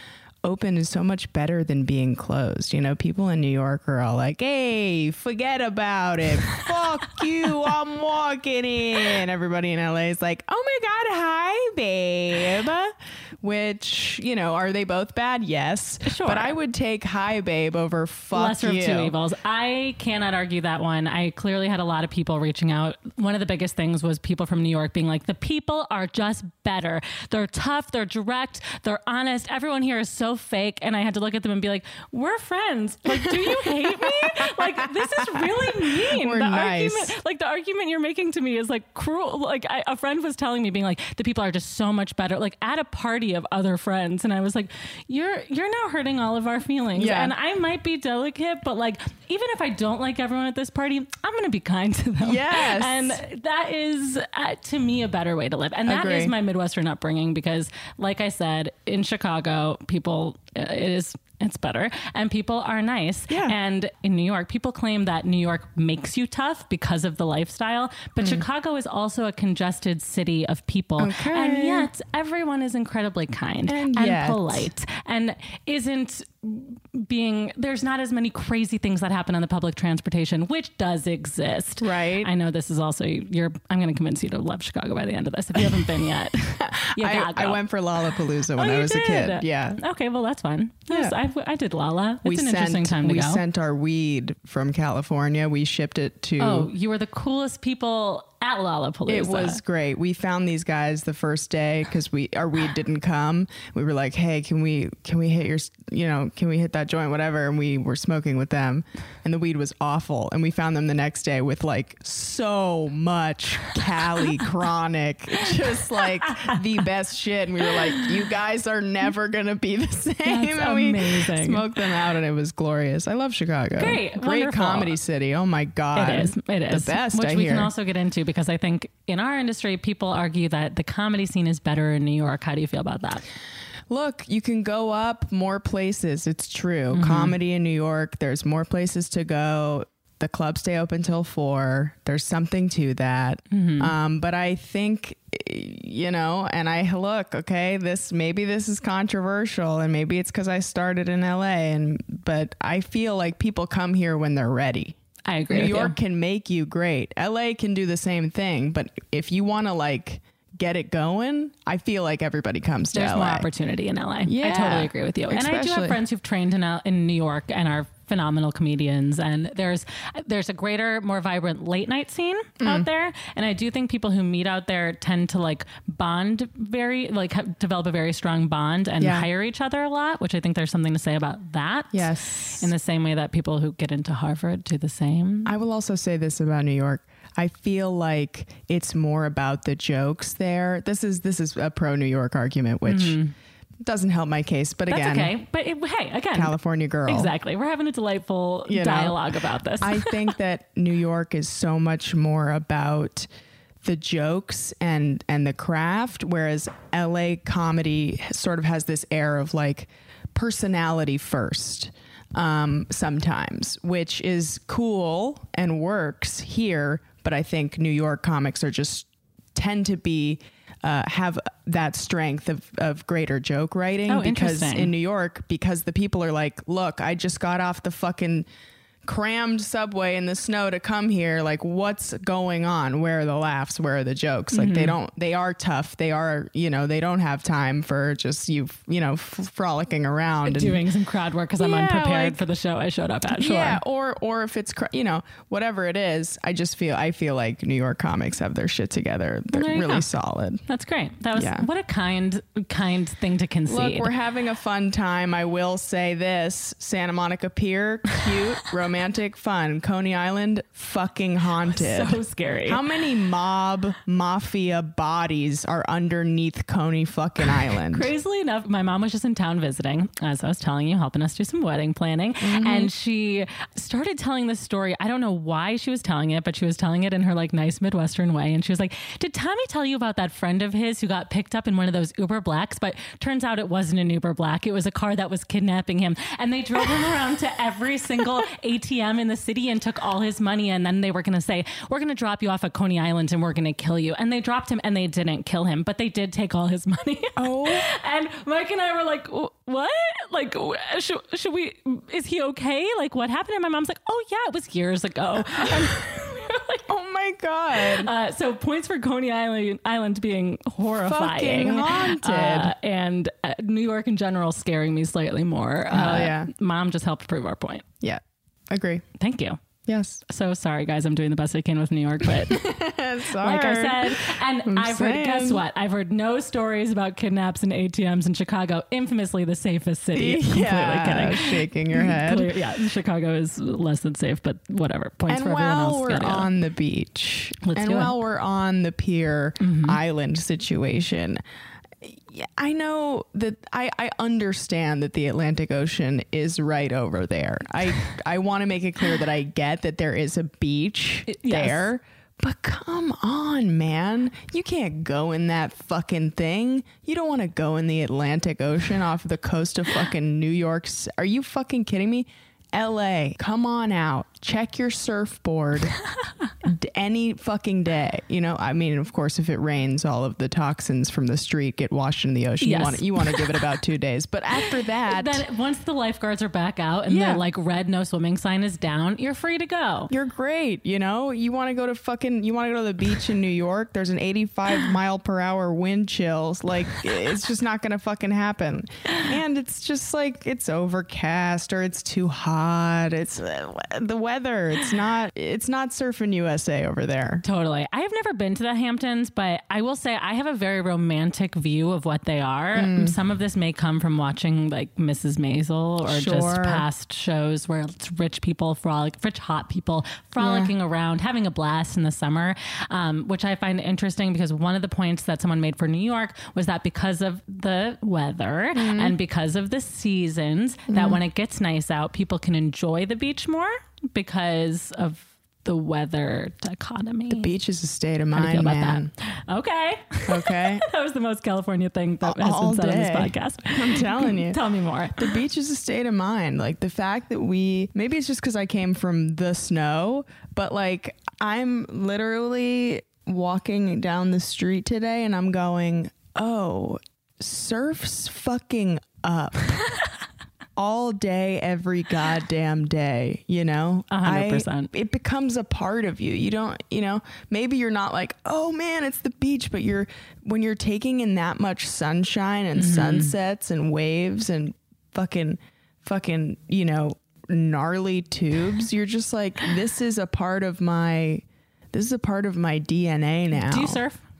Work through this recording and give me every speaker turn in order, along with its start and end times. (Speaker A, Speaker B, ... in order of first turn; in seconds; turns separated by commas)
Speaker A: 0.4-19.1, Speaker B: 16.1-16.5, Speaker B: 18.3-87.6, Speaker A: 33.1-37.1, Speaker A: 46.9-47.3, Speaker A: 52.2-53.2, Speaker A: 55.9-56.3, Speaker A: 63.3-63.5, Speaker A: 71.0-71.9, Speaker A: 73.7-74.7, Speaker A: 81.8-82.3, Speaker A: 85.6-85.8, Speaker A: 86.6-89.8, Speaker B: 88.5-93.4, Speaker A: 90.9-91.2, Speaker A: 92.2-96.7, Speaker B: 96.4-99.6, Speaker A: 99.1-127.7, Speaker B: 120.2-121.7, Speaker B: 123.8-125.0, Speaker B: 125.9-133.2, Speaker A: 133.9-155.0, Speaker B: 136.9-137.4, Speaker B: 143.5-143.9, Speaker B: 155.2-155.9, Speaker A: 155.5-163.5, Speaker B: 162.9-185.5, Speaker A: 164.2-166.0, Speaker A: 172.6-172.9, Speaker A: 179.0-179.3, Speaker A: 181.9-182.7, Speaker A: 185.4-193.2, Speaker B: 192.8-193.3, Speaker A: 193.8-195.3, Speaker B: 194.9-196.5, Speaker A: 196.3-197.3, Speaker B: 197.1-200.3, Speaker A: 198.7-199.2, Speaker A: 199.8-203.3, Speaker A: 203.8-228.5, Speaker B: 224.1-224.9, Speaker A: 229.0-240.8, Speaker B: 234.5-234.9, Speaker B: 240.4-243.8, Speaker A: 241.6-242.4, Speaker A: 243.3-250.6, Speaker B: 249.5-250.1, Speaker B: 250.7-254.1, Speaker A: 251.3-251.7, Speaker A: 253.7-268.1, Speaker B: 261.7-262.8, Speaker B: 267.9-306.9, Speaker A: 272.4-272.9, Speaker A: 297.4-297.9, Speaker A: 305.5-305.9, Speaker A: 306.9-308.1, Speaker B: 307.8-317.8, Speaker A: 310.9-312.7, Speaker A: 315.9-316.5, Speaker A: 318.0-319.0, Speaker B: 319.2-319.6, Speaker A: 319.8-320.2, Speaker B: 320.3-322.6, Speaker A: 322.3-325.6, Speaker B: 323.4-336.5, Speaker A: 330.1-332.5, Speaker A: 335.3-341.4, Speaker B: 337.6-338.1, Speaker B: 339.6-340.0, Speaker A: 342.0-365.9, Speaker B: 351.3-351.9, Speaker A: 366.6-375.4, Speaker B: 372.6-373.4, Speaker B: 375.1-380.1, Speaker A: 377.1-377.4, Speaker A: 380.1-397.4, Speaker B: 397.4-427.5, Speaker A: 402.7-403.1, Speaker A: 406.0-406.8, Speaker A: 410.4-410.7, Speaker A: 418.7-419.1, Speaker A: 420.9-421.2, Speaker A: 427.3-429.1, Speaker B: 428.3-435.4, Speaker A: 430.3-430.8, Speaker A: 432.2-434.6, Speaker A: 435.2-449.8, Speaker A: 450.8-474.0, Speaker B: 454.1-454.9, Speaker B: 462.8-463.3, Speaker B: 473.5-474.2